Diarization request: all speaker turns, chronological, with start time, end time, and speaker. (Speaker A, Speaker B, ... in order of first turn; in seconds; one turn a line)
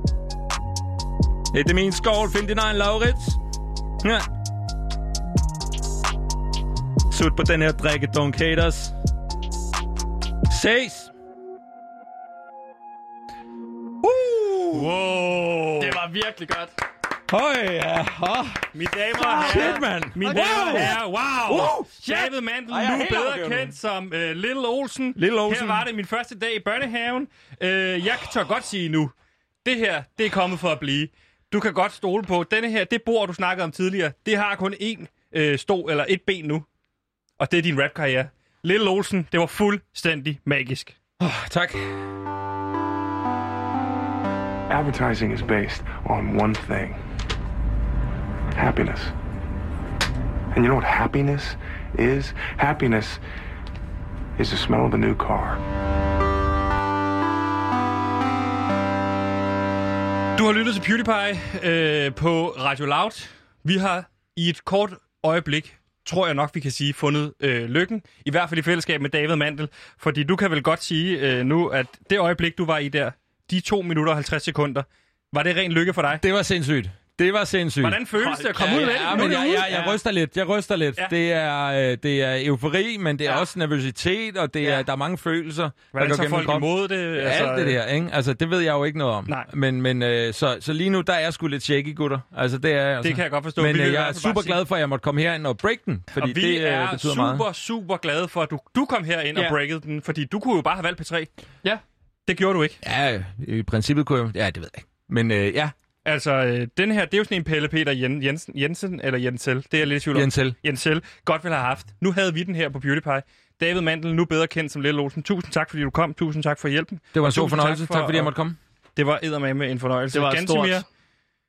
Speaker A: 1.5-3.4
Speaker A: 7.1-8.9
Speaker A: 10.5-11.1
Speaker A: 14.0-14.9
Speaker B: 14.7-16.0
Speaker C: 15.8-16.7
Speaker A: 17.3-18.7
Speaker B: 18.7-29.1
Speaker C: 19.2-21.0
Speaker A: 19.2-21.9
Speaker C: 22.0-22.3
Speaker A: 22.7-23.8
Speaker A: 25.2-25.9
Speaker B: 29.6-36.7
Speaker B: 37.4-41.0
Speaker A: 41.2-42.0
Speaker D: 44.7-47.0
Speaker D: 48.6-49.1
Speaker D: 50.5-53.2
Speaker D: 54.4-55.6
Speaker B: 60.4-76.2
Speaker A: 76.2-78.0
Speaker B: 77.8-80.0
Speaker C: 78.2-79.7
Speaker A: 78.5-97.5
Speaker B: 85.9-87.8
Speaker B: 93.0-94.6
Speaker B: 96.2-101.3
Speaker B: 102.3-102.8
Speaker A: 102.8-105.8
Speaker B: 106.0-118.3
Speaker A: 110.1-110.6
Speaker A: 117.1-118.6
Speaker B: 119.0-120.8
Speaker C: 120.1-120.8